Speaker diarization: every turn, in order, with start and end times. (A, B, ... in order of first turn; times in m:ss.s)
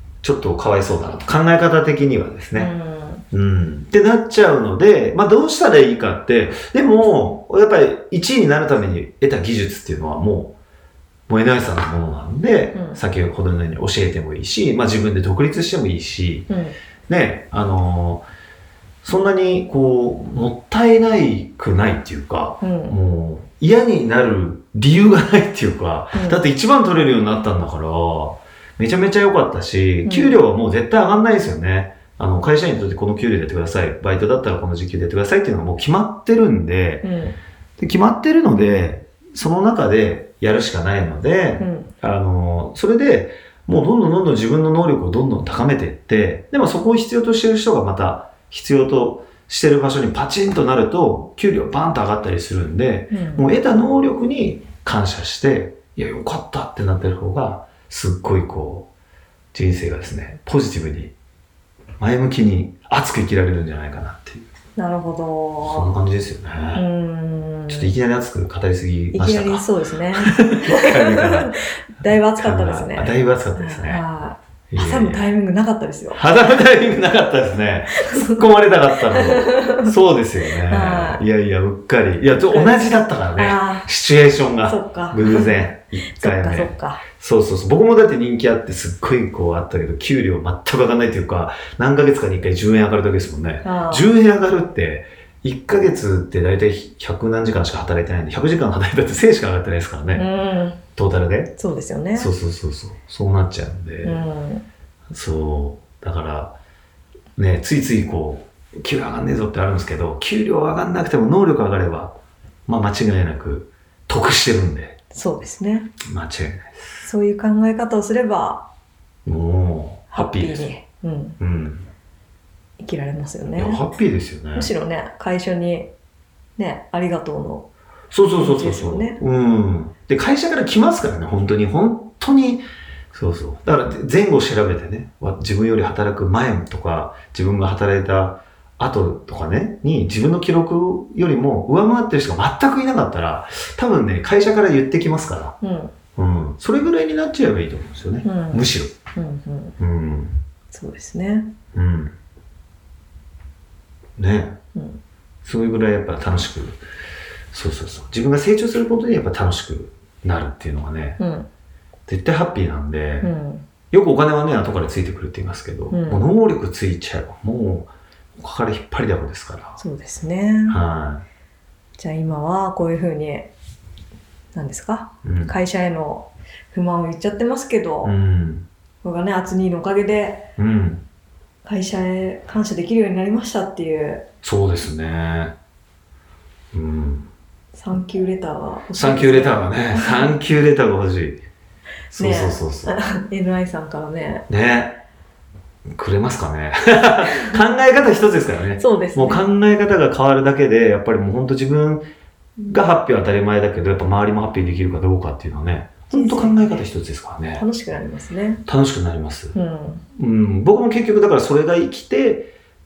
0:00.2-0:02.7 A
0:02.5-0:03.2 B
0:03.3-0:10.6 A
0:11.3-0:16.5 A
0:12.7-0:13.0 B
0:16.5-0:16.8 B
0:17.1-0:18.3 A
0:19.0-0:37.1 A
0:22.6-0:23.0 B
0:26.1-0:26.4 B
0:30.0-0:30.4 B
0:37.0-0:37.4 B
0:37.8-0:58.9 A
0:41.6-0:41.9 B
0:53.1-0:53.5 B
0:59.5-1:01.1 A
1:02.0-1:04.5 A
1:04.8-1:05.9 B
1:05.6-1:06.8 A
1:06.8-1:07.9 B
1:07.7-1:09.7 A
1:09.1-1:16.2 B
1:10.2-1:11.6 A
1:12.4-1:14.0 A
1:14.7-1:15.3 A
1:16.1-1:40.3 A
1:17.9-1:18.4 B
1:19.0-1:19.9 B
1:20.6-1:21.2 B
1:22.5-1:23.9 B
1:24.6-1:27.0 B
1:33.6-1:34.1 B
1:40.1-1:40.8 B
1:41.0-1:41.5 A
1:41.6-1:42.3 B
1:42.1-1:44.3 A
1:44.0-1:44.7 B
1:45.1-1:46.6 A
1:47.4-1:52.1 A
1:52.7-1:55.0 A
1:55.1-1:55.9 B
1:56.0-1:56.8 A
1:57.0-1:58.7 B
1:59.3-2:00.7 A
2:00.1-2:01.4 B
2:01.4-2:01.9 A
2:02.8-2:03.8 B
2:03.6-2:04.7 A
2:04.5-2:05.9 B
2:06.6-2:07.7 B
2:08.1-2:25.6 A
2:08.4-2:09.2 B
2:25.6-2:26.0 B
2:26.2-2:28.9 A
2:28.2-2:29.8 B
2:29.8-2:30.4 A
2:30.7-2:31.5 B
2:31.7-2:32.2 A
2:34.2-2:34.6 A
2:34.8-2:35.0 B
2:35.4-2:36.8 A
2:37.5-2:41.2 A
2:41.2-2:41.5 B
2:42.1-2:43.3 A
2:43.2-2:43.6 B
2:43.9-2:49.8 A
2:45.9-2:46.3 B
2:49.8-2:50.8 B
2:50.7-2:51.2 A
2:52.0-2:53.5 B
2:54.5-2:58.1 B
2:55.2-2:55.5 A
2:58.0-2:58.7 A
2:59.0-3:00.5 B
3:00.6-3:01.0 A
3:01.6-3:04.3 B
3:04.4-3:05.5 A
3:06.7-3:07.3 A
3:07.7-3:10.4 B
3:09.0-3:11.4 A
3:12.1-3:13.0 A
3:12.2-3:14.4 B
3:14.5-3:15.0 A
3:16.0-3:22.1 A
3:18.8-3:19.5 B
3:22.6-3:27.6 A
3:26.1-3:26.7 B
3:27.6-3:28.6 B
3:28.7-3:29.6 A
3:29.6-3:30.0 B
3:30.2-3:32.5 A